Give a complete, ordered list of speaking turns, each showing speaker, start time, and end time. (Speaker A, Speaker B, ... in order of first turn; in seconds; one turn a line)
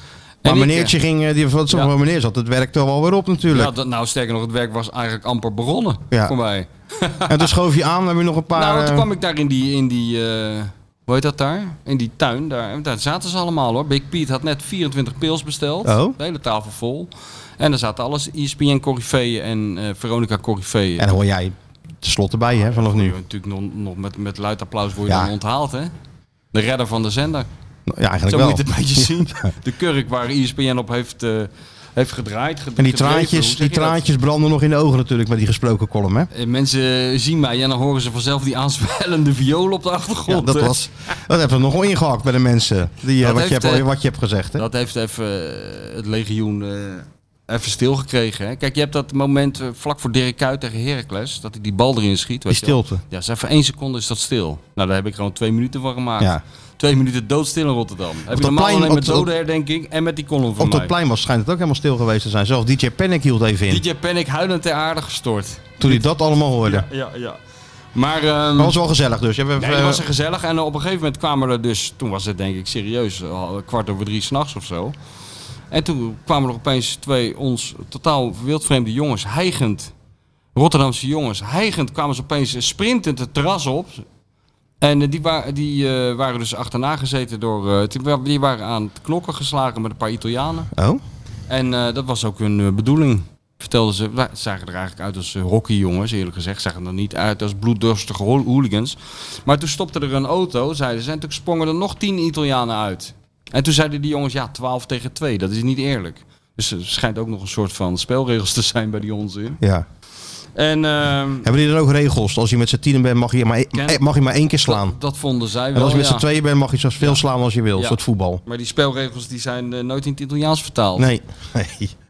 Speaker A: 0.4-0.9
Speaker B: 0.4-3.7
Speaker A: 3.5-7.5
Speaker B: 7.3-9.1
Speaker A: 8.5-21.1
Speaker B: 15.8-16.2
Speaker B: 21.0-23.1
Speaker A: 22.6-25.9
Speaker A: 26.5-27.5
Speaker B: 27.9-29.5
Speaker A: 28.3-34.0
Speaker B: 32.8-36.3
Speaker A: 36.3-40.8
Speaker B: 40.3-44.6
Speaker A: 43.2-43.9
Speaker A: 44.5-60.9
Speaker B: 52.5-53.0
Speaker B: 58.3-59.3
Speaker B: 60.6-63.8
Speaker A: 63.7-66.0
Speaker B: 65.8-66.9
Speaker A: 66.6-67.4
Speaker A: 67.9-68.8
Speaker B: 68.5-70.0
Speaker A: 69.6-74.9
Speaker A: 75.7-79.9
Speaker A: 80.5-84.0
Speaker A: 84.8-90.7
Speaker B: 90.7-91.0
Speaker A: 91.5-109.6
Speaker B: 109.6-109.8
Speaker A: 110.5-111.5
Speaker B: 111.4-115.0
Speaker A: 113.7-114.0
Speaker A: 114.6-116.2
Speaker B: 115.7-118.4
Speaker A: 117.7-121.1
Speaker B: 121.0-121.9